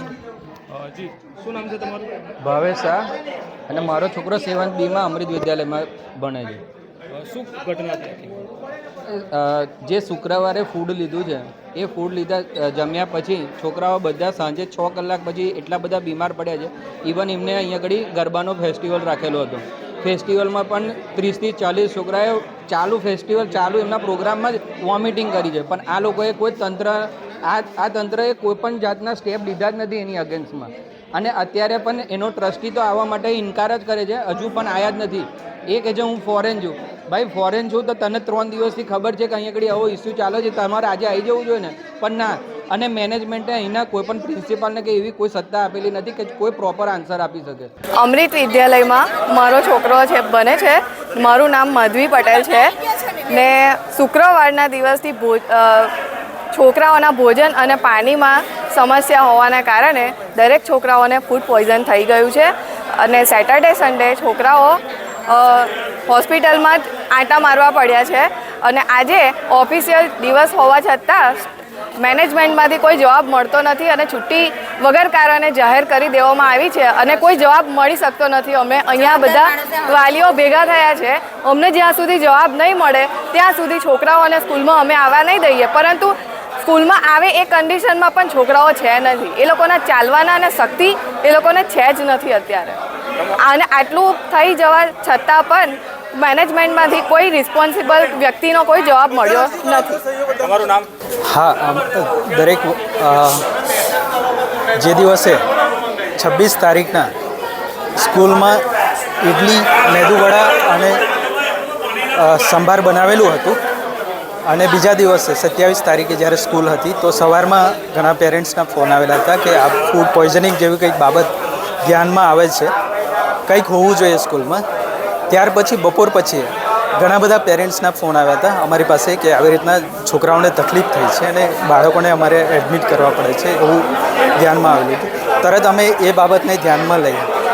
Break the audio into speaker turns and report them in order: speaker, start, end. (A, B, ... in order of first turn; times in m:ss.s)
0:00.7-0:02.2 A
0:02.4-0:03.1 B
0:03.7-0:06.6 B
0:07.1-0:08.4 A
0:09.0-0:47.7 B
0:47.9-0:55.9 C
0:56.5-1:40.0 C
1:40.3-1:40.8 A
1:41.2-1:43.4 D
1:44.8-1:45.4 D
1:46.2-1:47.1 D
1:48.0-1:48.6 D
1:49.2-1:51.0 D
1:52.1-1:53.6 D
1:54.4-2:01.3 D
2:01.8-2:02.7 D
2:03.5-2:04.6 D
2:05.3-2:17.3 D